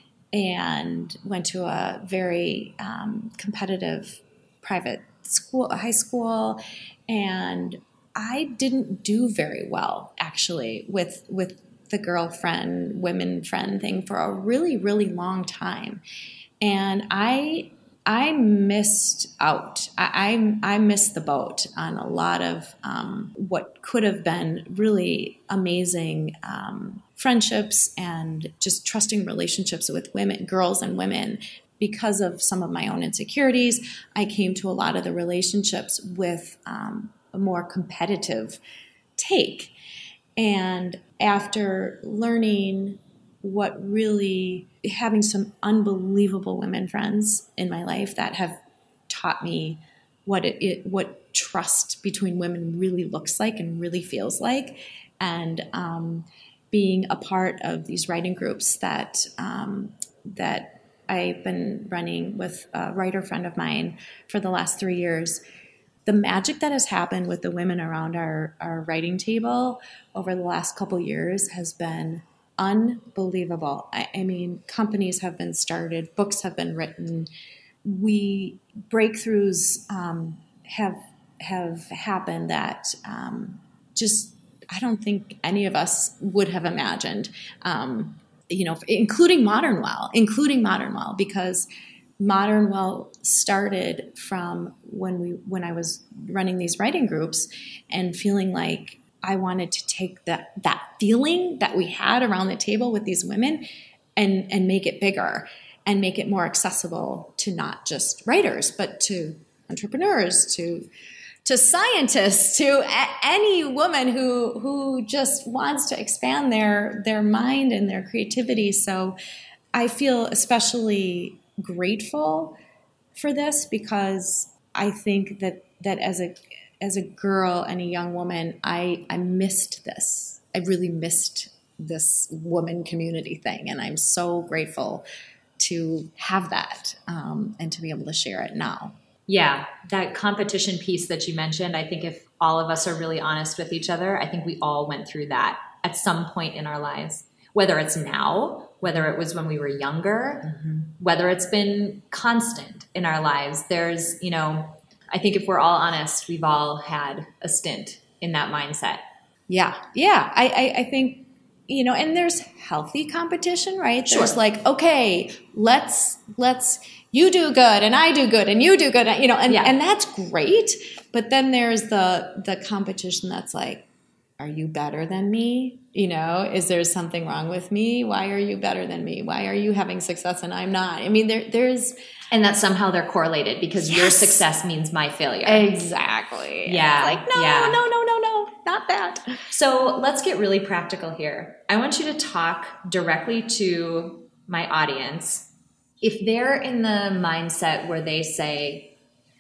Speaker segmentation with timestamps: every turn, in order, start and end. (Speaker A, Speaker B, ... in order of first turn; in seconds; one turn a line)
Speaker A: 0.3-16.0
Speaker A: 16.6-38.6
Speaker A: 39.2-39.7
Speaker A: 40.4-65.4
Speaker A: 66.1-77.3
Speaker A: 77.8-91.7
Speaker A: 92.2-103.7
Speaker A: 104.2-110.9
Speaker A: 111.5-119.2
Speaker A: 119.7-122.6
Speaker A: 123.2-135.1
Speaker A: 135.6-139.0
Speaker B: 139.3-159.0
Speaker A: 159.5-173.9
Speaker B: 164.1-164.4
Speaker B: 169.5-169.8
Speaker A: 174.4-182.0
Speaker B: 182.3-185.7
Speaker A: 183.8-184.4
Speaker A: 185.4-189.4
Speaker B: 186.7-187.8
Speaker B: 189.5-195.5
Speaker B: 196.0-198.9